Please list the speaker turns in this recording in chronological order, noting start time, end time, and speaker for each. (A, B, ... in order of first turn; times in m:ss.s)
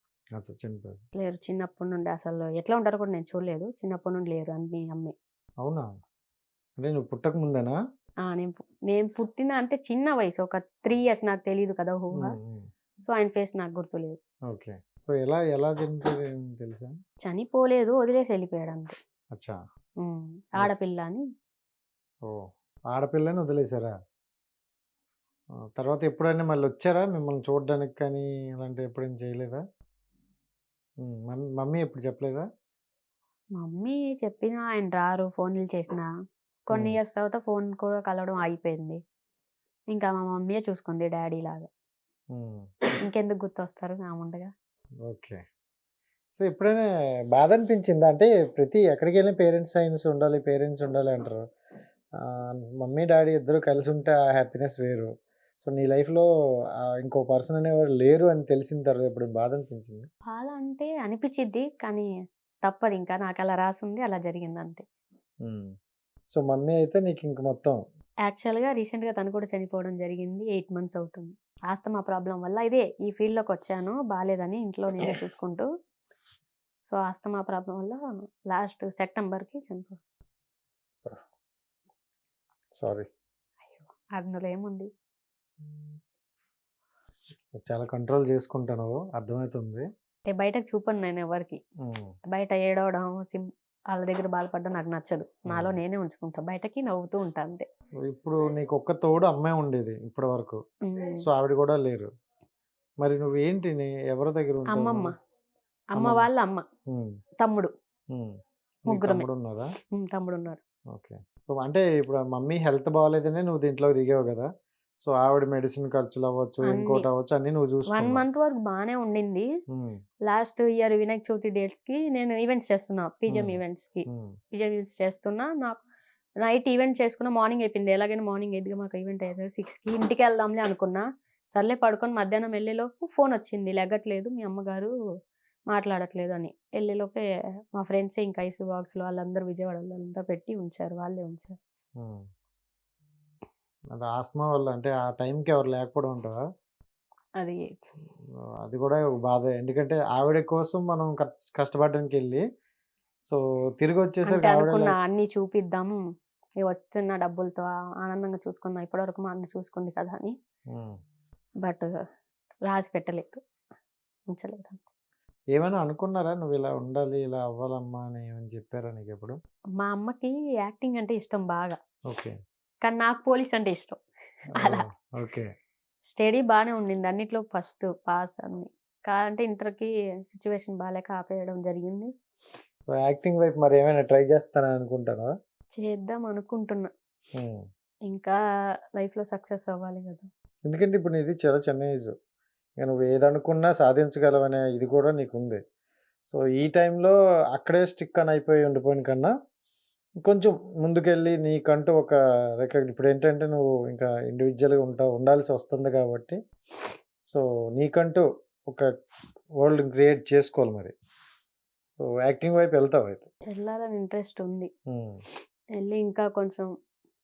0:00.4-0:01.0 A
0:01.2-0:05.1 B
0:05.6-0:05.9 A
0:06.8-0:07.8 A
0:08.2-0:12.4 B
0:12.2-0:12.7 A
0:13.0-0:14.2 B
0:14.5-0:16.9 A
0:17.2-0:19.0 B
0:20.0-0:21.2 B
0:22.2-0:23.9 A
0:25.8-0:29.6 A
0:31.0-0:32.4 A
0:33.6-0:36.1 B
0:36.7-0:39.0 B
0:36.7-0:37.0 A
0:39.9-0:41.7 B
0:42.3-0:42.6 A
0:43.0-0:44.5 B
0:45.0-0:45.4 A
0:46.4-0:51.4 A
0:52.2-0:55.1 A
0:55.6-0:56.3 A
0:56.8-1:00.1 A
1:00.3-1:02.1 B
1:02.6-1:04.8 B
1:06.3-1:07.8 A
1:08.2-1:15.6 B
1:16.9-1:20.0 B
1:22.8-1:23.1 A
1:23.7-1:24.9 B
1:27.5-1:29.8 A
1:30.3-1:31.6 B
1:31.8-1:32.1 A
1:32.3-1:37.6 B
1:35.5-1:35.8 A
1:38.0-1:40.6 A
1:40.8-1:41.2 B
1:41.2-1:42.1 A
1:43.0-1:45.1 A
1:44.7-1:45.1 B
1:45.9-1:46.6 B
1:46.0-1:46.3 A
1:46.9-1:47.1 A
1:47.4-1:47.7 B
1:48.9-1:49.7 A
1:48.9-1:49.3 B
1:49.9-1:50.6 B
1:50.9-1:54.5 A
1:55.0-1:58.2 A
1:56.7-1:57.1 B
1:57.9-1:59.4 B
1:59.7-2:00.0 A
2:00.3-2:05.8 B
2:03.3-2:04.3 A
2:06.4-2:14.9 B
2:15.7-2:17.2 B
2:17.7-2:21.6 B
2:23.9-2:26.4 A
2:27.4-2:27.9 B
2:28.6-2:32.4 A
2:33.3-2:35.0 A
2:34.3-2:36.0 B
2:36.6-2:40.3 B
2:41.6-2:42.0 B
2:42.7-2:43.4 B
2:44.3-2:44.8 B
2:45.6-2:49.4 A
2:49.8-2:51.8 B
2:52.1-2:52.3 A
2:52.8-2:54.0 B
2:54.5-2:55.5 A
2:54.6-2:54.8 B
2:56.1-3:02.1 B
3:02.9-3:05.3 A
3:05.7-3:06.9 B
3:07.3-3:07.6 A
3:08.1-3:08.3 B
3:09.0-3:10.3 B
3:10.6-3:12.1 A
3:12.8-3:15.6 A
3:16.3-3:19.3 A
3:20.2-3:26.4 A
3:27.3-3:28.9 A
3:29.6-3:30.9 A
3:31.9-3:33.3 A
3:33.5-3:34.7 B
3:34.9-3:35.2 A
3:35.8-3:36.7 B